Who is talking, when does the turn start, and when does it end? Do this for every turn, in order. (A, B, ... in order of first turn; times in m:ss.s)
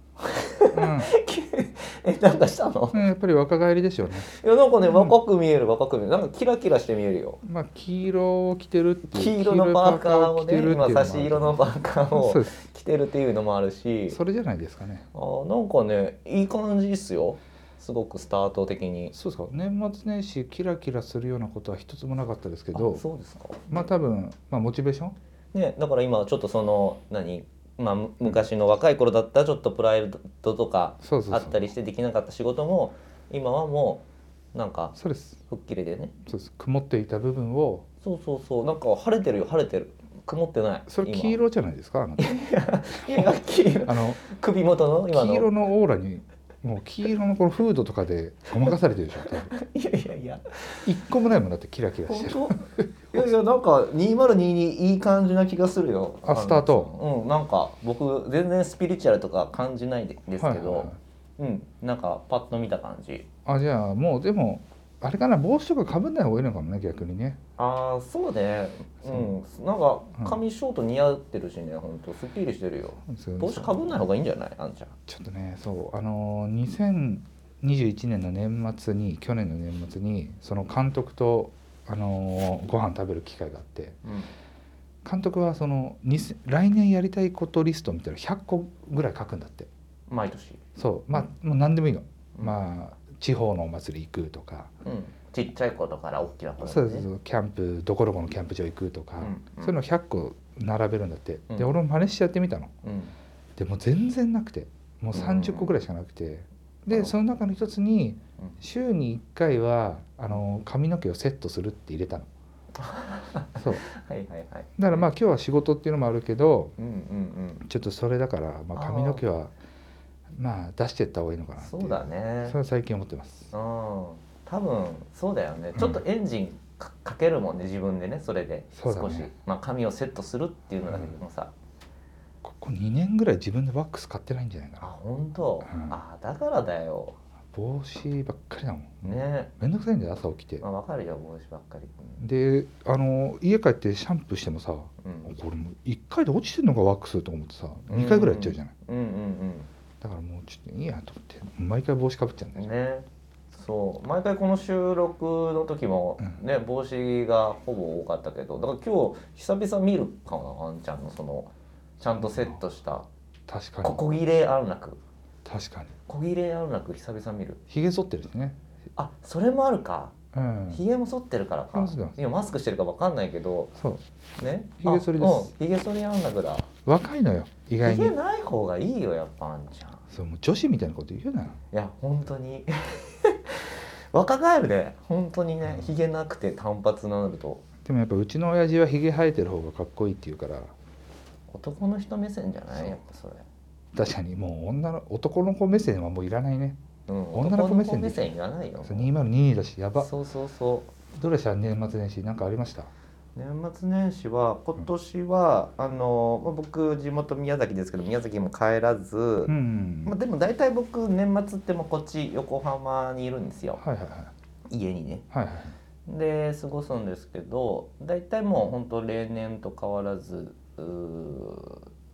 0:00.2-0:03.1 A
0:00.7-0:01.1 B
0:02.9-0:04.3 B
0:04.2-0:07.4 A
0:04.8-0:05.2 B
0:07.4-0:12.5 B
0:09.1-0:14.2 A
0:14.1-0:15.1 B
0:15.1-0:19.1 A
0:19.1-0:23.0 B
0:22.7-0:23.9 A
0:23.7-0:25.2 B
0:25.5-0:34.9 A
0:31.0-0:31.7 B
0:34.9-0:35.4 B
0:35.5-0:36.1 A
0:36.2-0:37.8 B
0:38.0-0:41.4 A
0:40.9-0:42.3 B
0:42.2-0:45.5 A
0:42.9-0:44.2 B
0:45.1-0:49.5 B
0:49.2-0:50.9 A
0:50.8-0:53.3 B
0:52.1-1:03.2 A
0:56.2-0:56.9 B
1:00.4-1:01.0 B
1:03.4-1:07.4 B
1:07.6-1:14.9 A
1:13.0-1:13.9 B
1:15.1-1:24.0 B
1:24.0-1:24.3 A
1:25.0-1:29.7 B
1:30.1-1:30.6 A
1:30.8-1:34.7 B
1:34.8-1:37.1 A
1:36.6-1:42.7 B
1:39.2-1:39.8 A
1:42.8-1:43.1 A
1:43.6-1:52.3 B
1:45.1-1:45.7 A
1:52.7-1:55.1 A
1:53.6-1:53.8 B
1:54.8-1:56.7 B
1:56.8-1:57.6 A
1:57.6-1:59.5 B
1:58.7-1:59.2 A
2:00.3-2:03.5 B
2:01.6-2:02.6 A
2:03.5-2:11.5 A
2:05.8-2:06.0 B
2:08.7-2:09.3 B
2:10.9-2:11.1 B
2:12.4-2:14.9 B
2:14.8-2:17.2 A
2:15.6-2:16.0 B
2:17.5-2:20.6 B
2:19.0-2:19.5 A
2:20.6-2:22.2 A
2:22.2-2:28.7 B
2:25.0-2:25.3 A
2:27.9-2:29.7 A
2:30.0-2:32.7 B
2:32.6-2:43.1 A
2:42.0-2:42.6 B
2:43.5-2:44.0 B
2:43.8-2:45.0 A
2:45.4-2:45.9 B
2:46.1-2:47.6 A
2:47.7-2:48.6 B
2:49.0-2:50.1 A
2:50.3-2:50.8 B
2:50.7-2:53.7 A
2:51.7-2:52.1 B
2:53.7-2:54.0 B
2:54.4-2:56.7 A
2:54.8-2:55.5 B
2:56.8-2:58.2 B
2:57.8-3:00.0 A
3:00.1-3:01.6 B
3:01.7-3:07.6 A
3:05.7-3:05.9 B
3:07.8-3:10.7 B
3:11.5-3:13.4 A
3:13.9-3:16.8 B
3:17.1-3:19.1 A
3:17.3-3:20.1 B
3:20.0-3:20.9 A
3:21.1-3:22.9 B
3:23.4-3:29.5 A
3:29.4-3:30.1 B
3:30.0-3:33.8 A
3:33.8-3:34.3 B
3:34.7-3:35.2 A
3:35.3-3:35.7 B
3:36.0-3:41.8 A